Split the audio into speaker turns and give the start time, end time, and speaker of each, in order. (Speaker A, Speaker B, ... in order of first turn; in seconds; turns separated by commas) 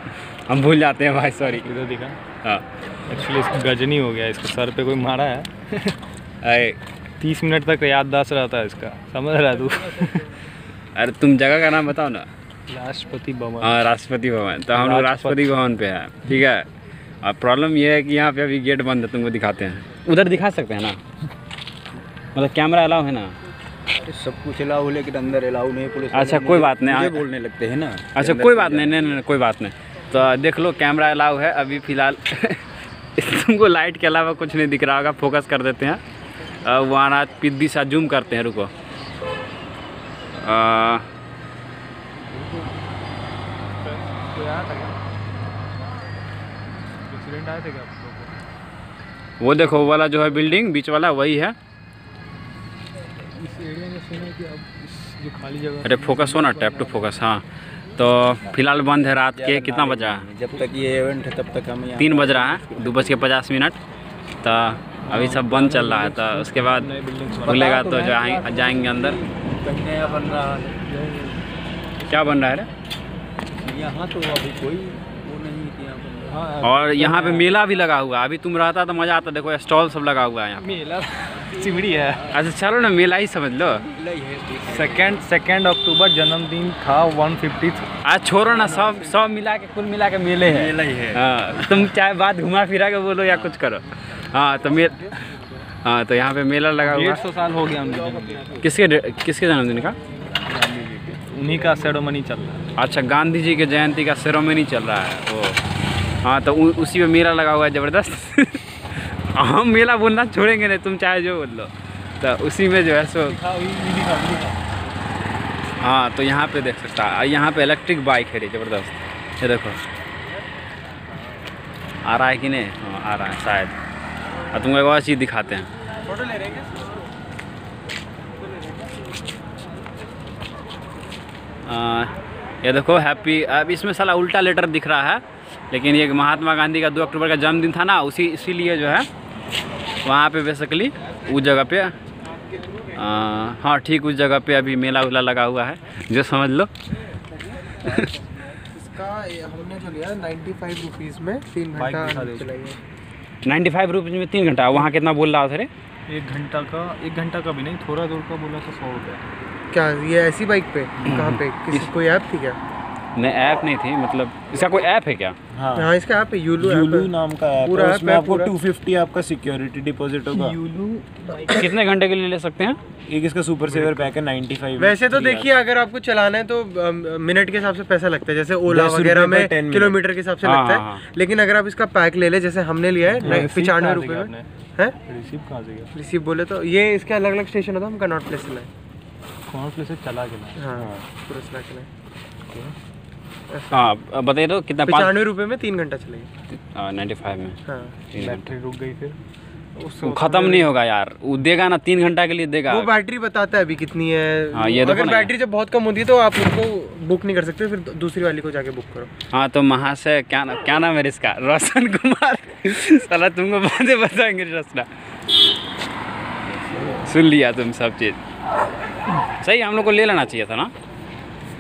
Speaker A: 0.5-1.7, Speaker B: 1.4-2.2, Speaker B: 3.1-6.0, Speaker A: 6.4-6.8, Speaker B: 7.2-10.3, Speaker A: 10.9-12.3, Speaker B: 12.7-13.8, Speaker A: 13.6-16.7, Speaker B: 14.7-15.5, Speaker A: 17.2-21.0, Speaker A: 22.3-23.3, Speaker C: 23.9-29.1, Speaker A: 26.1-27.2, Speaker A: 28.1-32.6, Speaker A: 33.2-36.0, Speaker A: 36.6-38.7, Speaker A: 40.4-41.0, Speaker B: 42.3-42.7, Speaker B: 43.8-45.0, Speaker B: 47.1-48.4, Speaker A: 49.4-51.6, Speaker B: 53.3-57.1, Speaker A: 55.8-57.4, Speaker A: 58.0-60.3, Speaker C: 59.3-63.2, Speaker A: 62.0-63.8, Speaker A: 64.4-66.9, Speaker B: 65.0-67.7, Speaker A: 67.4-69.2, Speaker C: 67.5-70.9, Speaker B: 70.9-71.4, Speaker A: 72.1-72.7, Speaker C: 73.6-76.5, Speaker B: 76.3-77.5, Speaker A: 76.6-80.7, Speaker B: 80.6-82.3, Speaker A: 82.3-83.8, Speaker C: 83.8-85.2, Speaker B: 84.7-87.9, Speaker A: 88.0-95.1, Speaker C: 88.5-89.1, Speaker C: 90.4-91.8, Speaker A: 95.8-97.2, Speaker B: 96.8-98.6, Speaker C: 97.9-98.6, Speaker A: 98.6-100.0, Speaker C: 100.5-101.1, Speaker B: 100.5-102.7, Speaker A: 102.8-105.6, Speaker A: 106.2-113.4, Speaker B: 113.3-114.6, Speaker A: 115.8-119.8, Speaker A: 122.0-123.7, Speaker A: 124.5-125.7, Speaker D: 126.0-126.8, Speaker A: 131.7-139.1, Speaker A: 140.0-141.9, Speaker A: 142.9-146.7, Speaker D: 147.6-152.8, Speaker A: 147.8-148.1, Speaker B: 151.7-152.5, Speaker A: 153.4-155.7, Speaker B: 156.1-159.3, Speaker D: 159.7-162.6, Speaker A: 161.0-161.9, Speaker A: 163.2-165.3, Speaker E: 165.5-165.9, Speaker D: 165.8-168.5, Speaker E: 166.6-170.6, Speaker B: 170.3-171.7, Speaker A: 171.4-172.8, Speaker E: 173.1-175.0, Speaker B: 173.7-174.1, Speaker D: 174.8-185.0, Speaker A: 175.1-175.4, Speaker E: 178.7-180.0, Speaker A: 180.4-181.0, Speaker B: 183.1-184.5, Speaker B: 185.1-185.9, Speaker D: 185.9-188.7, Speaker B: 189.5-190.7, Speaker D: 190.6-191.9, Speaker D: 193.5-193.9, Speaker A: 193.7-195.2, Speaker D: 194.8-196.3, Speaker A: 196.5-197.6, Speaker D: 197.7-198.0, Speaker A: 198.1-198.5, Speaker B: 198.2-199.2, Speaker D: 199.8-200.7, Speaker A: 200.0-202.9, Speaker D: 202.7-209.1, Speaker A: 204.5-205.3, Speaker A: 209.3-214.9, Speaker A: 216.8-218.2, Speaker A: 219.3-220.7